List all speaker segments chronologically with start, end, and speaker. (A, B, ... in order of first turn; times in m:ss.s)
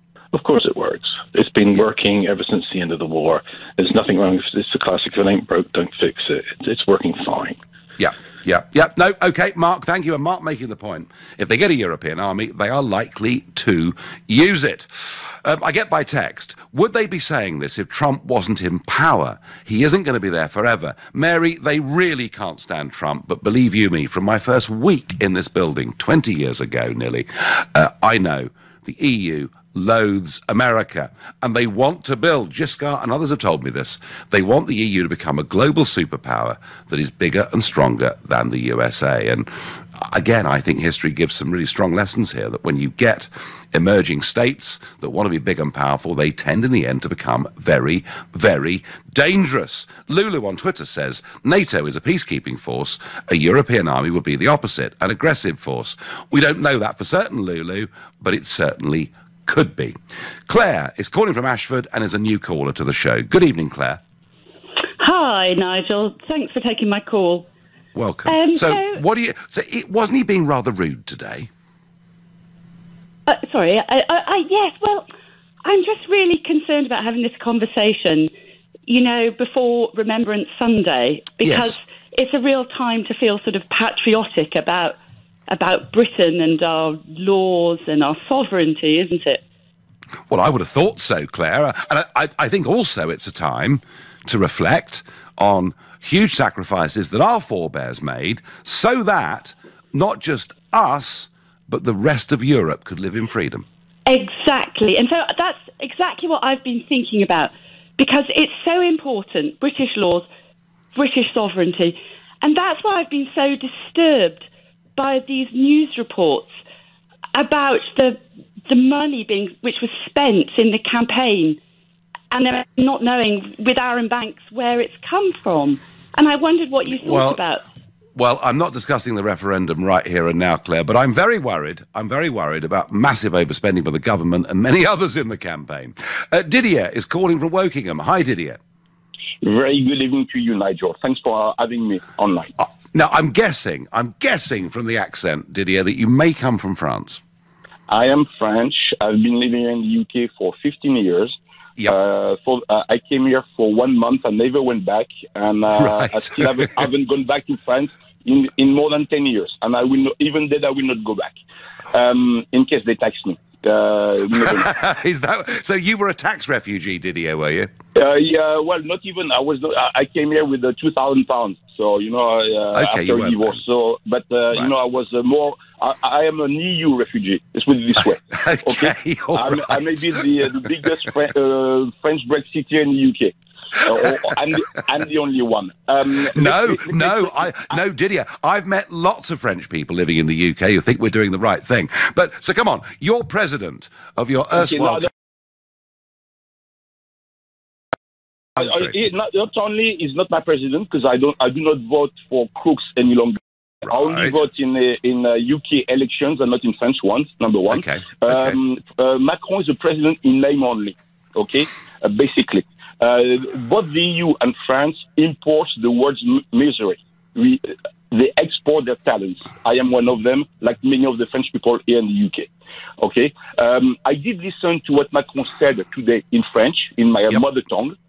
0:00.3-0:07.6 A
0:08.0-1:00.0 B
1:00.5-1:04.0 B
1:05.0-1:07.5 C
1:08.0-1:11.5 B
1:08.3-1:09.0 C
1:13.3-1:15.1 C
1:15.6-1:18.3 C
1:18.9-1:29.4 C
1:21.4-1:21.8 B
1:30.3-1:43.6 B
1:44.1-1:50.3 C
1:51.0-1:54.4 C
1:55.0-1:56.5 C
1:57.4-2:01.6 C
2:02.3-2:07.6 C
2:06.9-2:07.4 B
2:08.2-2:18.6 B
2:19.4-2:22.5 D
2:22.6-2:27.2 B
2:27.9-2:41.4 D
2:35.8-2:36.5 B
2:41.9-2:44.8 D
2:44.4-2:47.7 B
2:48.0-3:07.8 D
2:52.7-2:53.6 B
2:58.3-3:00.2 B
3:06.3-3:15.1 B
3:14.5-3:15.1 D
3:18.6-3:48.0 D
3:18.6-3:18.9 B
3:27.7-3:28.6 B